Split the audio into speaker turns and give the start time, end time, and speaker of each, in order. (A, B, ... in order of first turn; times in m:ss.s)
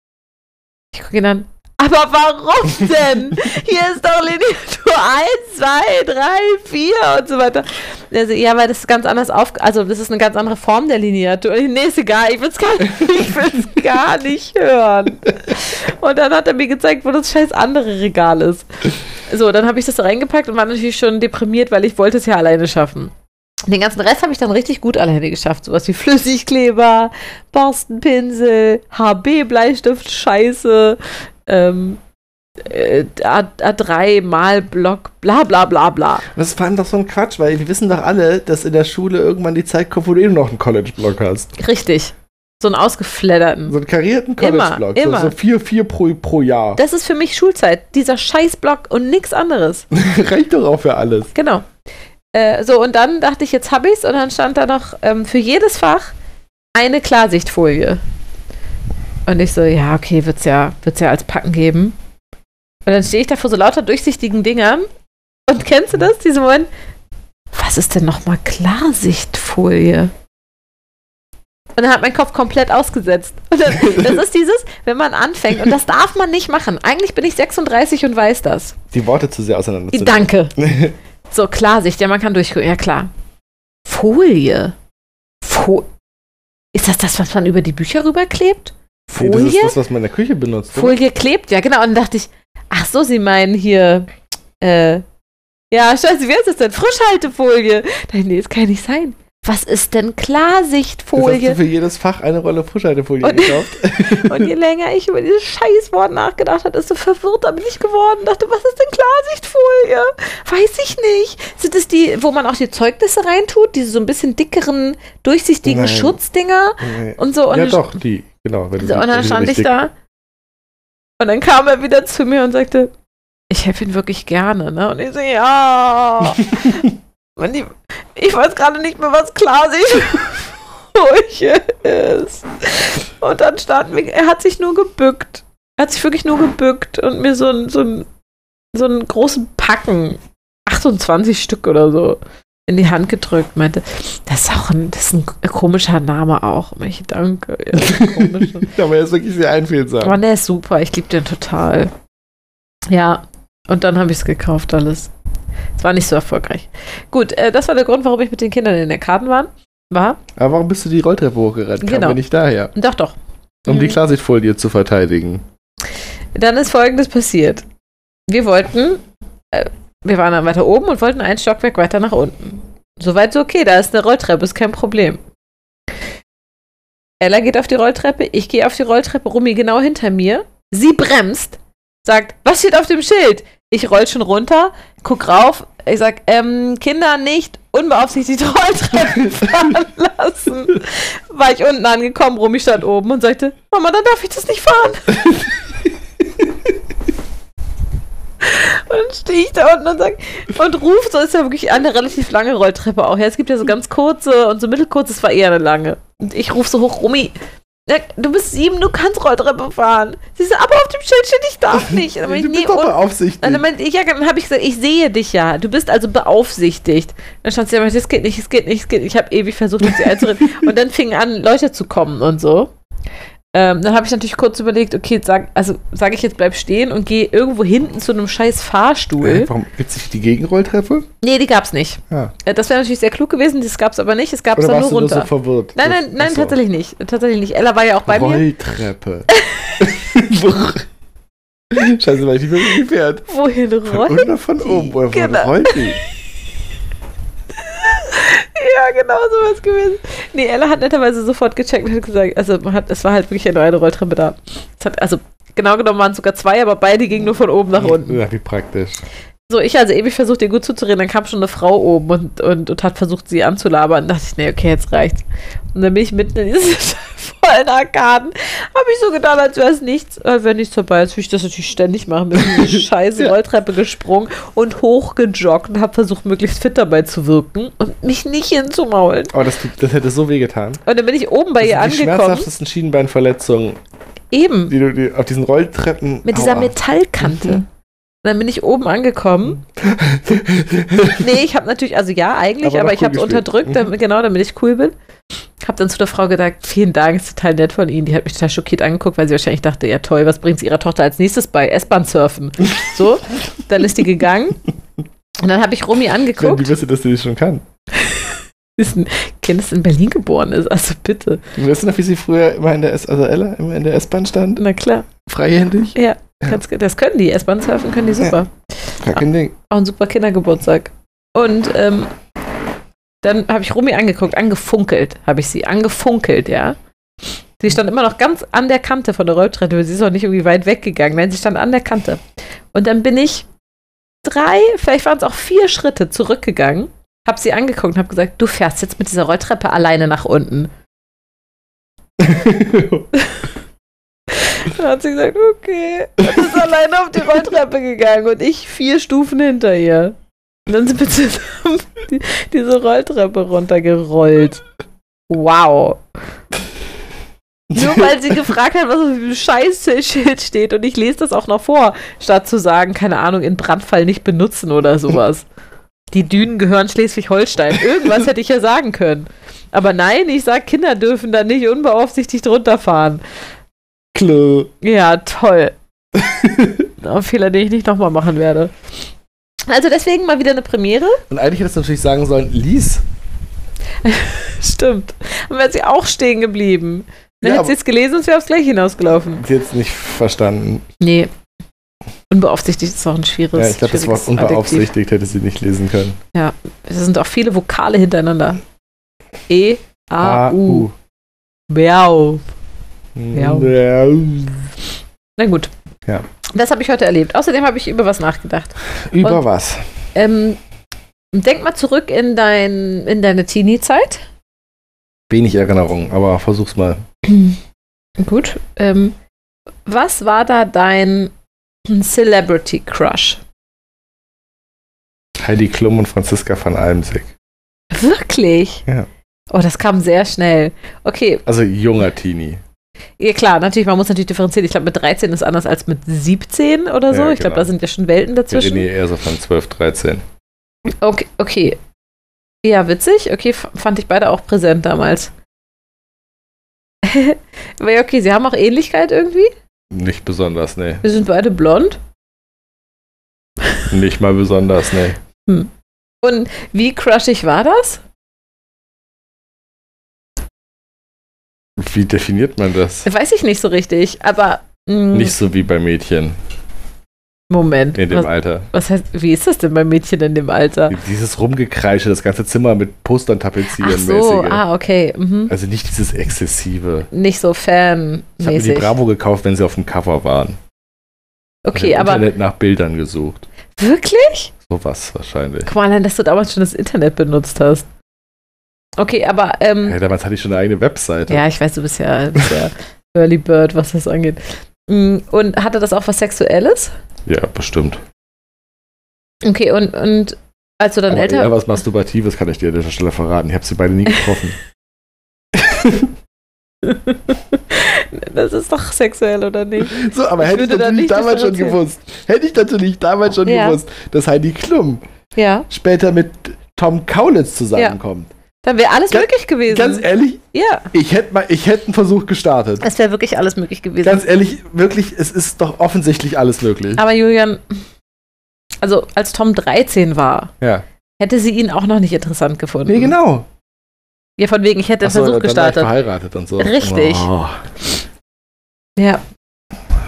0:00.9-0:18.7 A
0:19.3-0:23.1 A
0:23.7-0:32.0 A
0:32.6-0:36.3 A
0:36.3-0:41.5 B
0:41.6-0:43.8 A
0:43.7-0:46.8 B
0:44.4-0:45.4 A
0:46.8-0:49.9 A
0:49.9-0:51.3 B
0:51.4-0:51.6 A
0:52.3-0:56.1 A
0:56.8-0:58.0 A
0:59.3-1:02.0 A
1:02.9-1:04.9 A
1:05.5-1:06.7 A
1:07.5-1:10.1 A
1:11.8-1:18.8 A
1:13.8-1:14.2 B
1:18.9-1:20.9 B
1:19.9-1:20.6 A
1:21.3-1:23.1 A
1:23.9-1:24.7 A
1:25.4-1:25.9 A
1:26.7-1:29.8 A
1:29.2-1:31.0 B
1:30.7-1:34.1 A
1:34.6-1:35.0 A
1:35.7-1:41.6 A
1:41.2-1:44.5 B
1:43.2-1:57.8 A
1:55.7-1:56.2 B
1:56.8-1:59.7 B
1:58.8-1:59.9 A
2:01.2-2:02.9 A
2:03.5-2:18.1 A
2:18.7-2:28.7 A
2:27.8-2:30.2 B
2:30.0-2:31.9 A
2:32.9-2:35.1 A
2:35.8-2:40.2 A
2:40.4-2:42.7 B
2:41.8-2:42.2 A
2:42.7-2:43.2 A
2:43.7-2:45.4 B
2:43.7-2:44.0 A
2:46.4-2:47.6 A
2:48.3-2:55.2 A
2:57.2-3:15.4 A
3:18.4-3:27.3 A
3:27.9-3:42.7 A
3:31.7-3:33.6 B
3:43.5-3:49.5 A
3:49.2-3:51.1 B
3:51.2-3:58.4 A
3:54.6-3:56.6 B
3:58.1-4:00.9 B
3:59.3-3:59.8 A
4:01.7-4:03.3 B
4:03.3-4:06.0 A
4:03.9-4:06.0 B
4:07.6-4:18.2 A
4:17.8-4:19.0 B
4:19.5-4:25.2 A
4:25.7-4:39.3 A
4:32.4-4:33.3 B
4:39.3-4:40.8 B
4:40.9-4:42.5 A
4:41.6-4:43.8 B
4:44.3-4:44.7 A
4:44.7-4:47.6 B
4:46.3-4:47.7 A
4:48.2-4:49.6 A
4:49.6-4:51.3 B
4:51.2-4:54.9 A
4:52.6-4:53.9 B
4:55.6-5:04.6 A
5:05.4-5:06.7 A
5:06.4-5:07.6 B
5:08.0-5:11.4 A
5:11.6-5:14.6 B
5:14.6-5:15.1 A
5:15.2-5:16.6 B
5:15.9-5:18.5 A
5:19.0-5:19.6 B
5:19.1-5:22.1 A
5:23.2-5:26.8 A
5:27.6-5:32.2 A
5:32.7-5:33.5 A
5:34.2-5:40.7 A
5:42.2-5:43.1 B
5:43.1-5:43.4 A
5:44.3-5:54.6 A
5:55.3-5:56.0 A
5:57.7-6:05.4 A
5:57.7-5:58.1 B
6:06.1-6:13.2 A
6:14.1-6:14.7 B
6:14.8-6:15.8 A
6:16.2-6:16.9 B
6:17.0-6:18.7 A
6:19.7-6:21.2 A
6:21.3-6:23.0 B
6:24.0-6:29.4 A
6:27.4-6:27.7 B
6:29.4-6:30.8 B
6:31.0-6:31.3 A
6:32.3-6:34.9 A
6:33.6-6:36.2 B
6:36.3-6:38.6 A
6:39.5-6:40.9 A
6:40.2-6:40.9 B
6:41.7-6:42.4 A
6:43.2-6:44.7 B
6:43.3-6:43.7 A
6:45.4-6:45.7 A
6:46.5-6:49.4 A
6:49.0-6:49.8 B
6:50.2-6:50.6 A
6:51.3-6:54.2 A
6:55.3-6:57.0 B
6:57.2-6:57.6 A
6:58.2-6:59.2 A
6:59.9-7:01.3 A
7:01.9-7:03.4 A
7:05.4-7:07.3 B
7:07.9-7:08.8 A
7:09.5-7:11.4 A
7:11.4-7:12.6 B
7:13.2-7:18.9 A
7:17.1-7:17.7 B
7:18.5-7:20.2 B
7:21.0-7:21.8 A
7:22.6-7:25.3 A
7:27.0-7:29.5 A
7:29.9-7:31.0 B
7:31.0-7:32.0 A
7:33.9-7:35.2 B
7:36.2-7:38.0 A
7:41.8-7:43.1 B
7:43.0-7:45.4 A
7:45.1-7:46.4 B
7:47.5-7:51.0 A
7:47.9-7:48.7 B
7:50.9-7:54.6 B
7:53.7-7:55.5 A
7:55.5-7:57.1 B
7:57.1-7:58.9 A
7:58.4-8:00.6 B
8:01.6-8:02.3 A
8:01.7-8:03.5 B
8:03.8-8:04.5 A
8:04.6-8:05.7 B
8:05.6-8:07.9 A
8:09.0-8:10.0 A
8:09.8-8:11.4 B
8:11.3-8:16.9 A
8:17.3-8:18.0 B
8:19.4-8:21.5 A
8:21.1-8:24.6 B
8:25.5-8:26.1 B
8:26.8-8:31.8 A
8:29.8-8:35.0 B
8:33.4-8:33.8 A
8:35.4-8:35.7 A
8:35.7-8:38.3 B
8:38.6-8:40.9 A
8:39.1-8:42.8 B
8:42.8-8:44.3 A
8:44.0-8:47.0 B
8:47.0-8:47.6 A
8:48.8-8:50.5 A
8:51.2-8:53.1 A
8:52.9-8:53.5 B
8:54.4-8:55.9 A
8:55.0-8:57.8 B
8:56.6-8:57.3 A
8:59.0-8:59.2 A